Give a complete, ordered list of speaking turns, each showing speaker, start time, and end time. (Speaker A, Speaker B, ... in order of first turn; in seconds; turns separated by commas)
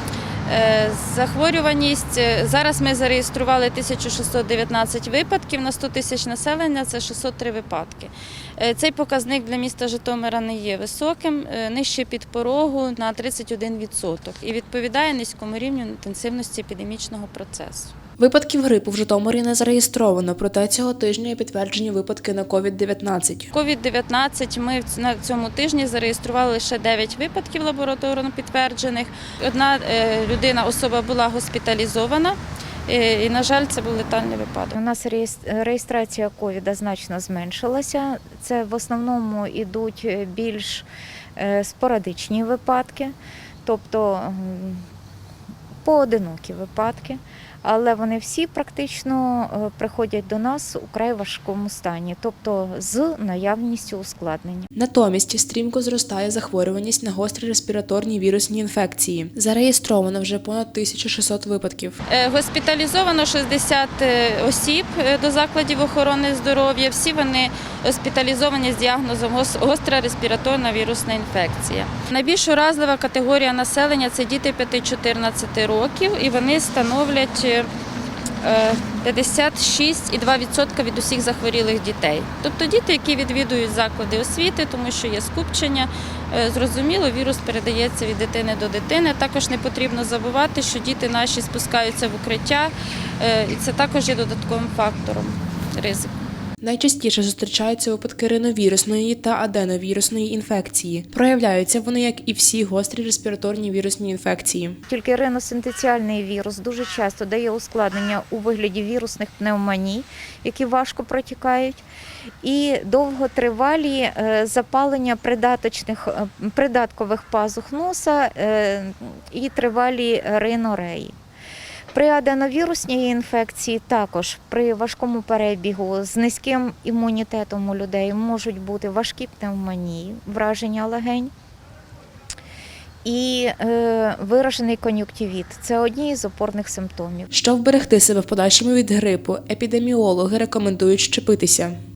Speaker A: 0.5-17.9, Speaker B: 18.2-23.5, Speaker A: 23.5-34.7, Speaker C: 34.7-40.9, Speaker C: 41.4-44.9, Speaker C: 45.8-54.7, Speaker B: 54.8-62.0, Speaker A: 62.1-77.7, Speaker A: 78.4-96.1, Speaker B: 96.6-104.8, Speaker C: 104.9-111.8, Speaker C: 112.4-121.1, Speaker C: 121.9-131.3, Speaker C: 133.1-137.3, Speaker B: 137.3-141.8